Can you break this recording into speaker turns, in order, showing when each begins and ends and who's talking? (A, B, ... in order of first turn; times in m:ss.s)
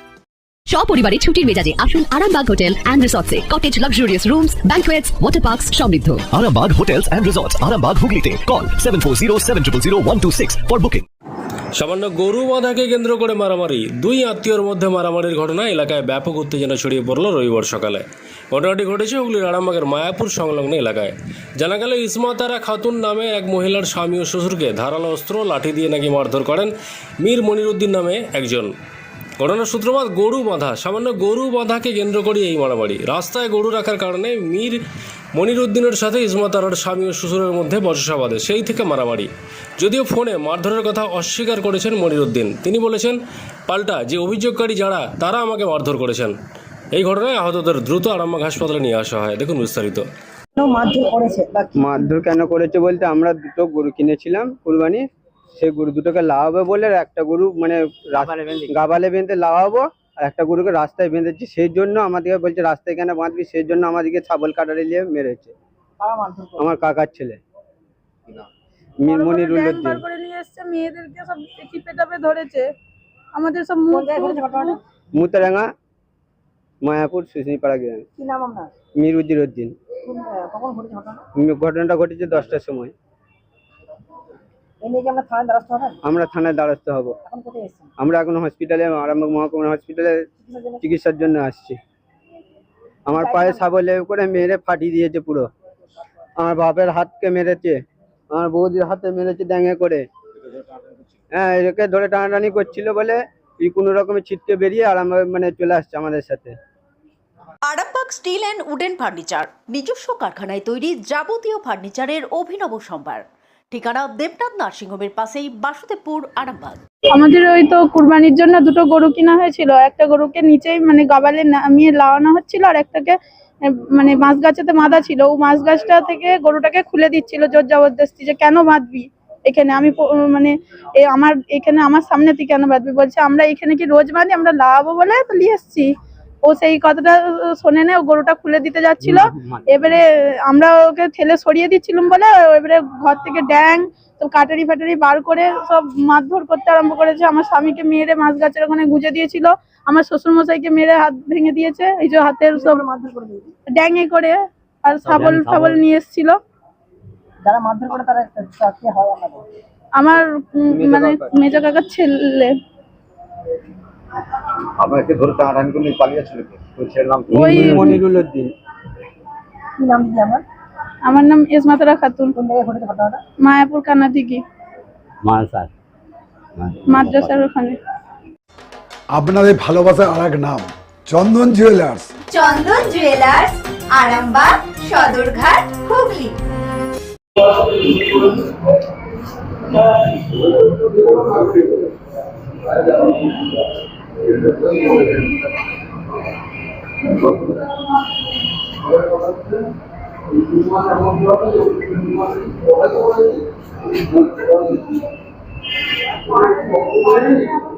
0:00.7-0:06.2 A
0:06.2-0:11.0 B
0:11.8-0:28.7 C
0:29.4-0:34.8 C
0:35.4-0:46.4 C
0:46.9-0:50.0 C
0:50.6-0:51.7 D
0:51.8-0:55.0 E
0:55.6-1:05.5 E
0:58.2-0:58.8 F
1:06.0-1:06.7 D
1:06.6-1:07.4 E
1:09.0-1:10.0 E
1:09.1-1:12.7 G
1:13.4-1:14.8 G
1:13.9-1:14.8 D
1:15.2-1:15.6 E
1:16.8-1:18.0 E
1:18.2-1:18.7 D
1:19.0-1:19.7 E
1:20.1-1:21.2 D
1:21.4-1:22.9 E
1:24.8-1:26.0 D
1:26.0-1:27.1 E
1:27.3-1:27.9 D
1:28.0-1:30.2 E
1:30.5-1:30.8 D
1:30.8-1:31.8 E
1:33.1-1:35.5 E
1:33.2-1:33.7 D
1:36.4-1:37.8 E
1:38.3-1:40.0 E
1:41.3-1:46.6 E
1:47.6-1:56.8 H
1:57.1-2:03.2 G
2:03.7-2:15.9 G
2:16.4-2:32.8 G
2:19.0-2:19.9 E
2:32.6-2:33.5 D
2:33.7-2:36.4 G
2:35.0-2:35.8 F
2:37.4-2:39.4 D
2:40.0-2:42.5 G
2:40.7-2:41.6 E
2:44.8-2:48.0 F
2:47.3-2:48.5 E
2:47.4-2:48.1 G
2:49.8-2:50.4 D
2:51.0-2:52.3 G
2:52.3-2:53.2 D
2:53.4-2:54.4 G
2:55.2-2:55.7 F
2:56.6-2:57.4 F
2:56.9-2:57.8 G
2:59.1-3:02.1 I
3:02.3-3:06.4 J